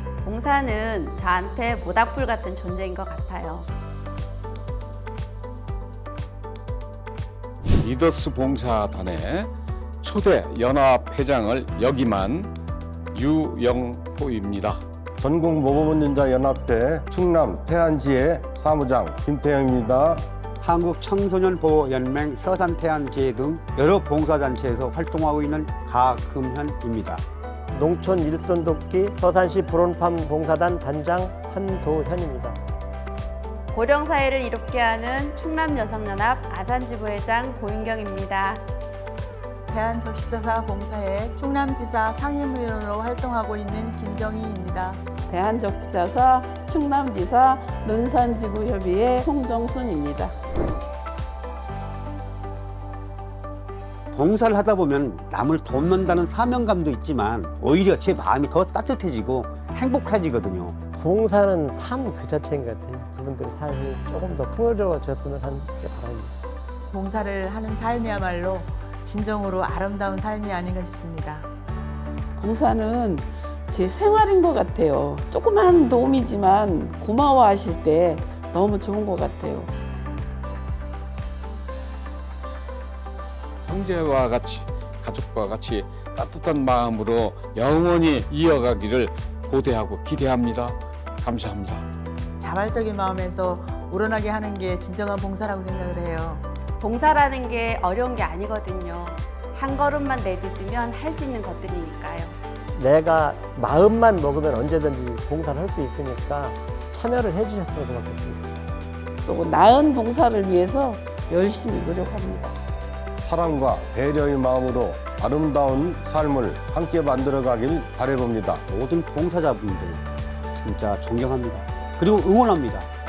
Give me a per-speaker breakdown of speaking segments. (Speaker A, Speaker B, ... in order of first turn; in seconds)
Speaker A: 0.2-3.7, 33.7-38.6, 96.8-102.3
Speaker B: 7.8-9.5, 10.0-12.5, 13.1-14.8, 83.6-91.8
Speaker C: 15.2-20.2, 113.2-118.6
Speaker D: 20.6-27.2, 54.1-60.8, 118.7-120.0, 120.5-122.9
Speaker E: 27.7-32.6, 61.0-66.3, 102.8-108.5
Speaker F: 39.7-45.0, 66.9-71.5, 92.4-96.5
Speaker G: 45.3-50.4, 72.4-79.7, 109.2-112.5